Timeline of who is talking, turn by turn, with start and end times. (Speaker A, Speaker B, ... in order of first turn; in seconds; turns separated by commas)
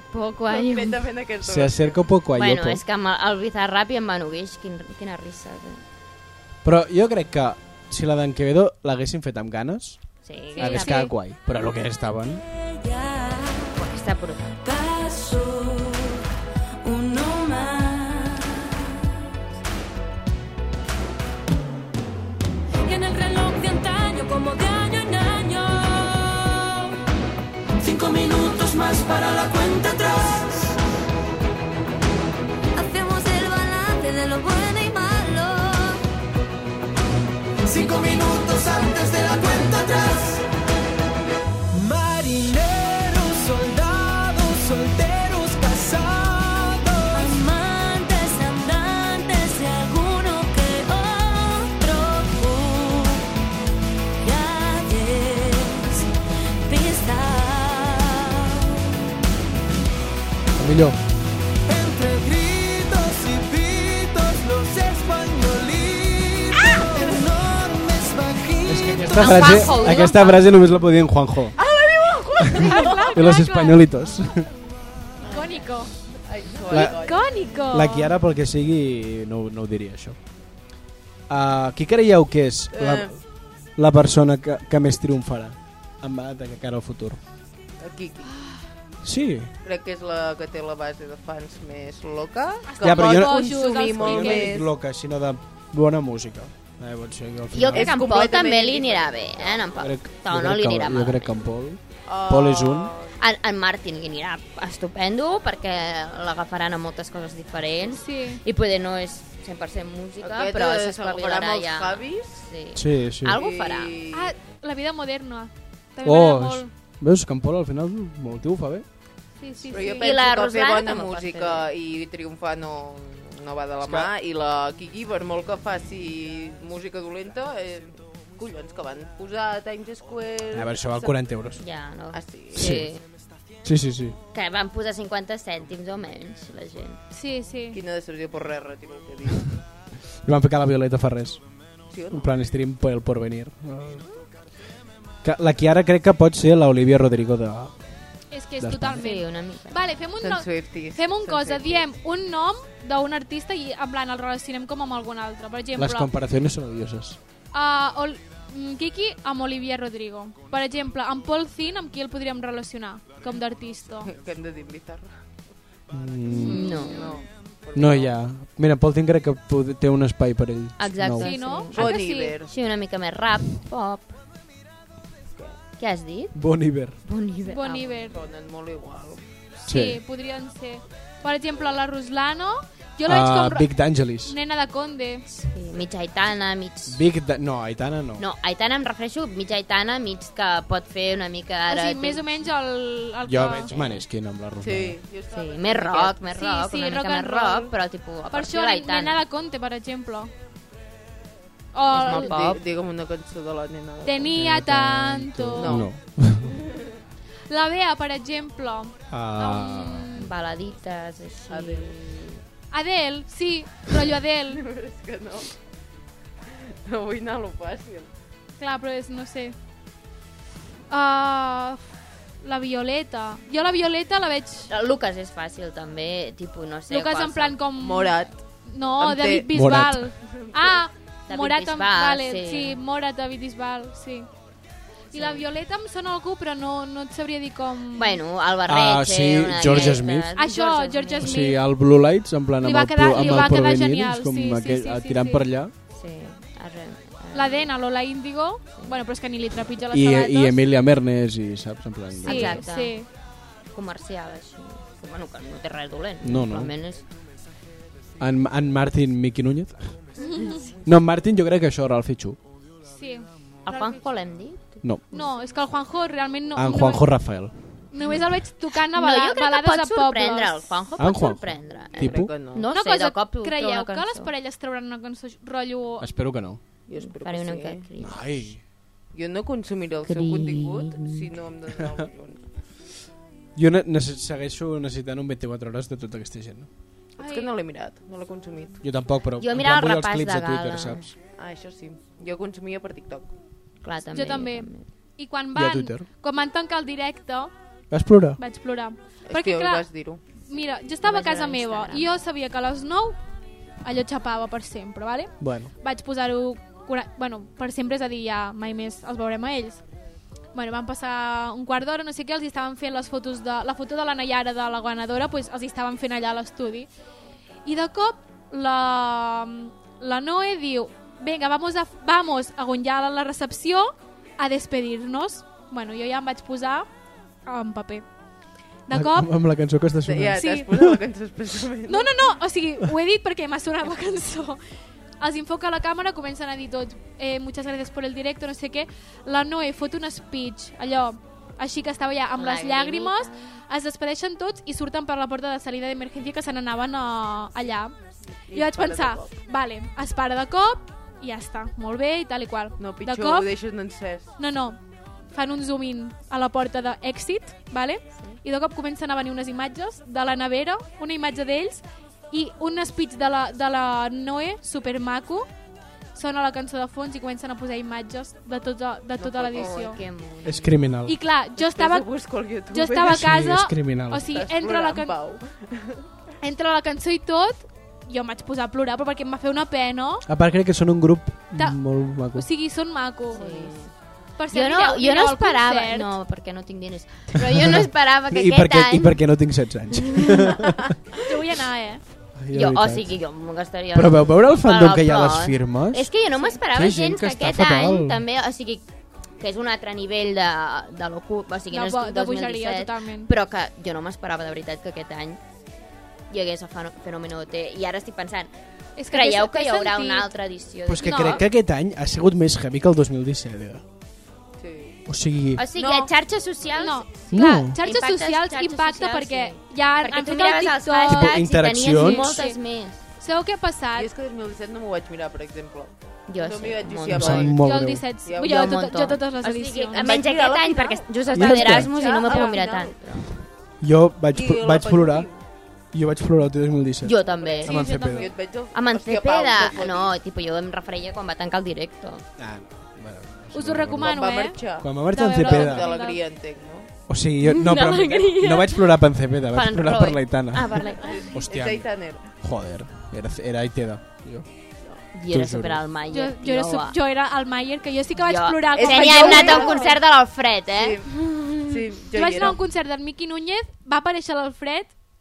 Speaker A: 0.1-1.0, Speaker B: 0.5-2.0, Speaker C: 1.4-2.8, Speaker A: 2.4-5.8, Speaker C: 6.6-10.0, Speaker A: 10.2-11.0, Speaker D: 10.5-11.1, Speaker C: 10.6-12.4, Speaker E: 12.7-13.8, Speaker A: 13.7-14.5, Speaker E: 14.5-16.3, Speaker E: 16.8-19.0, Speaker E: 22.9-26.9, Speaker F: 27.8-30.6, Speaker E: 32.8-36.0, Speaker F: 37.7-40.4, Speaker E: 37.9-38.3, Speaker F: 41.7-47.4, Speaker E: 47.1-53.3, Speaker E: 54.2-56.1, Speaker E: 56.7-59.0, Speaker C: 60.6-61.0, Speaker F: 61.7-69.7, Speaker C: 68.7-71.6, Speaker A: 69.1-70.5, Speaker B: 71.6-73.3, Speaker D: 72.6-73.9, Speaker C: 72.6-74.5, Speaker B: 75.2-75.7, Speaker D: 75.3-75.9, Speaker B: 76.2-77.3, Speaker C: 76.7-77.1, Speaker D: 76.7-78.1, Speaker C: 77.7-80.2, Speaker C: 81.3-83.2, Speaker B: 82.7-83.1, Speaker C: 83.8-87.2, Speaker B: 87.8-88.5, Speaker C: 89.0-89.5, Speaker B: 89.6-94.7, Speaker D: 92.7-94.6, Speaker C: 92.8-98.0, Speaker A: 97.5-101.4, Speaker B: 97.7-99.8, Speaker C: 99.8-102.9, Speaker B: 102.1-103.2, Speaker A: 103.2-113.9, Speaker D: 107.9-108.4, Speaker B: 110.2-112.5, Speaker C: 112.8-113.4, Speaker B: 113.3-114.3, Speaker D: 114.1-116.7, Speaker C: 116.0-118.8, Speaker D: 119.4-120.1, Speaker B: 119.7-131.2, Speaker A: 119.8-121.7, Speaker C: 123.8-124.1, Speaker C: 130.5-131.6, Speaker A: 131.6-133.0, Speaker B: 132.1-132.8, Speaker C: 132.6-132.9, Speaker C: 133.6-134.2, Speaker A: 134.3-137.0, Speaker D: 137.1-137.8, Speaker B: 137.7-139.6, Speaker C: 140.2-141.4, Speaker B: 141.9-142.3, Speaker C: 142.1-144.1, Speaker C: 145.2-147.8, Speaker D: 148.3-156.1, Speaker C: 148.6-149.1, Speaker A: 149.0-149.8, Speaker B: 150.2-151.8, Speaker C: 155.8-157.2, Speaker D: 157.5-164.1, Speaker B: 164.0-165.1, Speaker C: 165.9-166.7, Speaker B: 166.4-168.1, Speaker A: 166.5-167.1, Speaker D: 166.6-167.2, Speaker C: 167.7-171.3, Speaker A: 170.8-174.2, Speaker D: 171.2-172.4, Speaker B: 171.7-172.5, Speaker A: 175.8-176.4, Speaker C: 176.3-177.0, Speaker A: 177.1-178.0, Speaker D: 177.5-178.2, Speaker B: 178.1-179.2, Speaker D: 179.6-185.2, Speaker C: 179.7-180.0, Speaker C: 183.1-184.3, Speaker A: 185.3-187.0, Speaker C: 186.9-188.2, Speaker A: 188.2-192.2, Speaker D: 191.7-193.7, Speaker C: 193.2-195.0, Speaker A: 193.7-194.0, Speaker B: 194.6-196.2, Speaker A: 195.3-199.2, Speaker D: 196.3-197.7, Speaker D: 198.3-200.3, Speaker D: 201.7-202.4, Speaker A: 201.9-202.6, Speaker B: 201.9-204.4, Speaker D: 204.0-205.9, Speaker C: 204.4-206.6, Speaker B: 205.6-205.9, Speaker B: 206.4-206.9, Speaker D: 207.5-210.3, Speaker C: 209.1-210.1, Speaker A: 210.2-212.4, Speaker B: 211.5-211.9, Speaker D: 212.7-214.6, Speaker B: 214.5-215.6, Speaker B: 216.5-218.1, Speaker D: 218.6-219.6, Speaker D: 220.9-221.8, Speaker D: 222.4-224.7, Speaker A: 224.7-227.6, Speaker D: 226.9-234.3, Speaker B: 227.8-228.4, Speaker B: 229.0-229.5, Speaker C: 229.5-230.1, Speaker B: 230.2-230.8, Speaker A: 231.3-232.8, Speaker D: 235.1-238.2, Speaker A: 235.2-235.4, Speaker A: 238.0-241.4, Speaker C: 238.7-240.3, Speaker D: 240.4-241.6, Speaker C: 241.2-245.7, Speaker D: 242.6-245.4, Speaker A: 245.9-247.7, Speaker D: 247.3-250.6, Speaker C: 249.9-252.6, Speaker A: 252.2-253.1, Speaker D: 252.2-253.1, Speaker A: 253.7-257.0, Speaker C: 256.2-256.7, Speaker C: 258.2-260.0, Speaker D: 260.2-260.7, Speaker C: 260.8-262.4, Speaker D: 262.9-263.9, Speaker A: 263.7-264.8, Speaker C: 264.8-265.2, Speaker D: 265.1-267.1, Speaker C: 266.6-267.5, Speaker D: 267.9-270.7, Speaker A: 268.9-274.3, Speaker C: 271.0-272.3, Speaker B: 271.9-272.7, Speaker D: 272.6-276.1, Speaker C: 276.0-276.6, Speaker B: 276.9-277.8, Speaker A: 277.0-278.2, Speaker C: 278.0-278.6, Speaker B: 279.1-282.5, Speaker A: 280.1-281.3, Speaker C: 283.6-286.7, Speaker B: 287.2-288.8, Speaker D: 287.2-287.5, Speaker C: 288.8-291.1, Speaker A: 289.4-291.1, Speaker B: 291.4-293.3, Speaker A: 293.8-294.8, Speaker D: 294.1-297.5, Speaker C: 295.5-296.1, Speaker C: 297.9-298.4, Speaker D: 298.4-299.9, Speaker B: 299.3-300.2, Speaker D: 300.5-303.2, Speaker A: 301.0-302.1, Speaker D: 303.8-309.8, Speaker C: 305.4-305.7, Speaker D: 310.5-316.9, Speaker D: 317.6-326.9, Speaker D: 327.5-328.1, Speaker D: 328.9-329.3, Speaker C: 328.9-331.0, Speaker B: 330.1-332.1, Speaker D: 330.4-330.7, Speaker D: 331.9-334.6, Speaker D: 335.2-347.9, Speaker A: 342.4-343.3, Speaker B: 348.5-349.3, Speaker D: 348.5-353.5, Speaker B: 352.8-354.3, Speaker D: 354.4-354.8, Speaker D: 355.3-365.5, Speaker D: 366.1-370.0, Speaker B: 369.2-369.8, Speaker A: 369.5-370.8, Speaker C: 370.4-371.2, Speaker D: 371.1-372.1, Speaker B: 371.6-373.2, Speaker D: 372.7-375.2, Speaker C: 373.1-374.3, Speaker B: 374.3-376.1, Speaker D: 376.4-380.3, Speaker C: 380.3-382.5, Speaker D: 381.6-383.4, Speaker A: 383.3-383.9, Speaker B: 383.3-383.9, Speaker D: 384.4-386.1, Speaker A: 384.5-389.2, Speaker C: 387.5-390.9, Speaker D: 391.2-392.0, Speaker C: 392.4-393.1, Speaker A: 392.5-398.9, Speaker C: 393.9-396.1, Speaker C: 396.7-398.2, Speaker A: 399.4-405.4, Speaker D: 401.7-403.3, Speaker A: 406.3-408.5, Speaker D: 409.0-410.3, Speaker A: 409.1-411.4, Speaker C: 410.9-413.8, Speaker D: 411.0-411.4, Speaker B: 414.6-415.0, Speaker C: 415.1-415.6, Speaker A: 415.6-423.0, Speaker B: 415.8-416.1, Speaker D: 416.8-422.6, Speaker C: 417.3-417.8, Speaker C: 421.1-422.4, Speaker D: 423.2-424.1, Speaker B: 424.0-427.6, Speaker A: 426.3-427.5, Speaker C: 427.1-428.1, Speaker D: 427.6-430.6, Speaker B: 428.3-428.8, Speaker A: 428.4-433.3, Speaker B: 430.0-433.0, Speaker C: 431.3-431.9, Speaker D: 431.6-432.6, Speaker C: 433.8-435.3, Speaker B: 434.3-435.4, Speaker C: 435.9-438.3, Speaker A: 437.0-437.8, Speaker B: 437.3-440.2, Speaker D: 437.6-438.3, Speaker A: 438.7-442.2, Speaker C: 442.4-445.9, Speaker D: 443.5-446.2, Speaker B: 444.0-446.9, Speaker C: 447.1-454.5, Speaker A: 447.4-448.9, Speaker A: 449.5-451.2, Speaker B: 451.0-452.3, Speaker A: 455.1-457.0, Speaker C: 455.3-455.8, Speaker D: 456.1-460.0, Speaker A: 458.2-461.8, Speaker B: 458.8-460.0, Speaker B: 460.7-462.6, Speaker D: 462.1-464.9